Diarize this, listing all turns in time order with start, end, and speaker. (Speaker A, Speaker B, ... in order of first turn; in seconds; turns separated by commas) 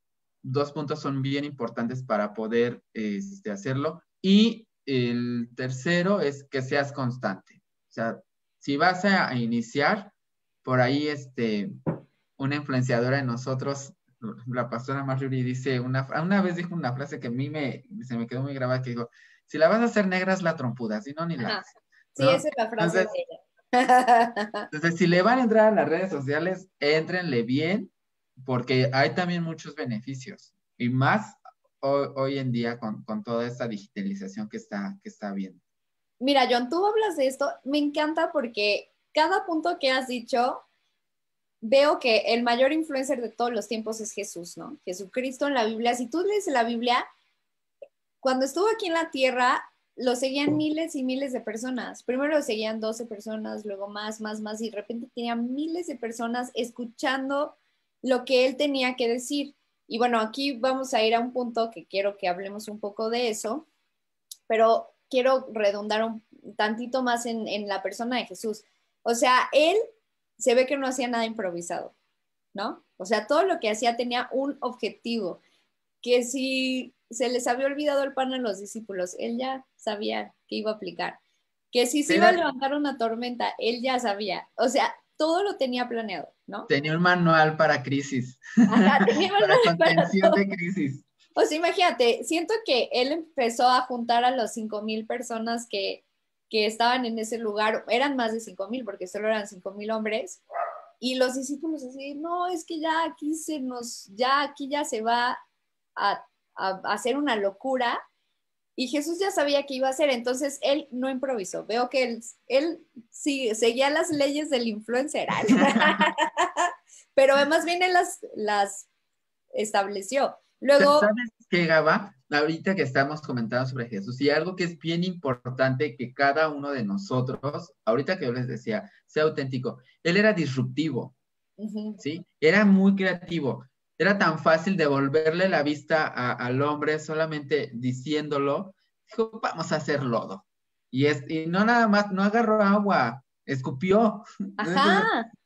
Speaker A: 0.4-11.7, Speaker A: 12.4-21.6, Speaker B: 21.4-24.7, Speaker A: 22.2-23.1, Speaker A: 24.7-35.6, Speaker B: 36.2-40.6, Speaker B: 41.6-47.1, Speaker B: 48.2-63.6, Speaker B: 64.5-69.8, Speaker B: 70.4-71.9, Speaker B: 72.5-75.4, Speaker B: 76.0-81.2, Speaker B: 81.7-86.7, Speaker A: 82.1-82.4, Speaker A: 86.7-91.1, Speaker B: 88.7-90.4, Speaker B: 91.3-100.4, Speaker B: 101.0-105.4, Speaker B: 106.0-108.0, Speaker B: 108.8-118.9, Speaker B: 119.5-121.1, Speaker A: 120.8-131.2, Speaker B: 131.6-132.0, Speaker A: 132.0-145.1, Speaker B: 144.6-145.2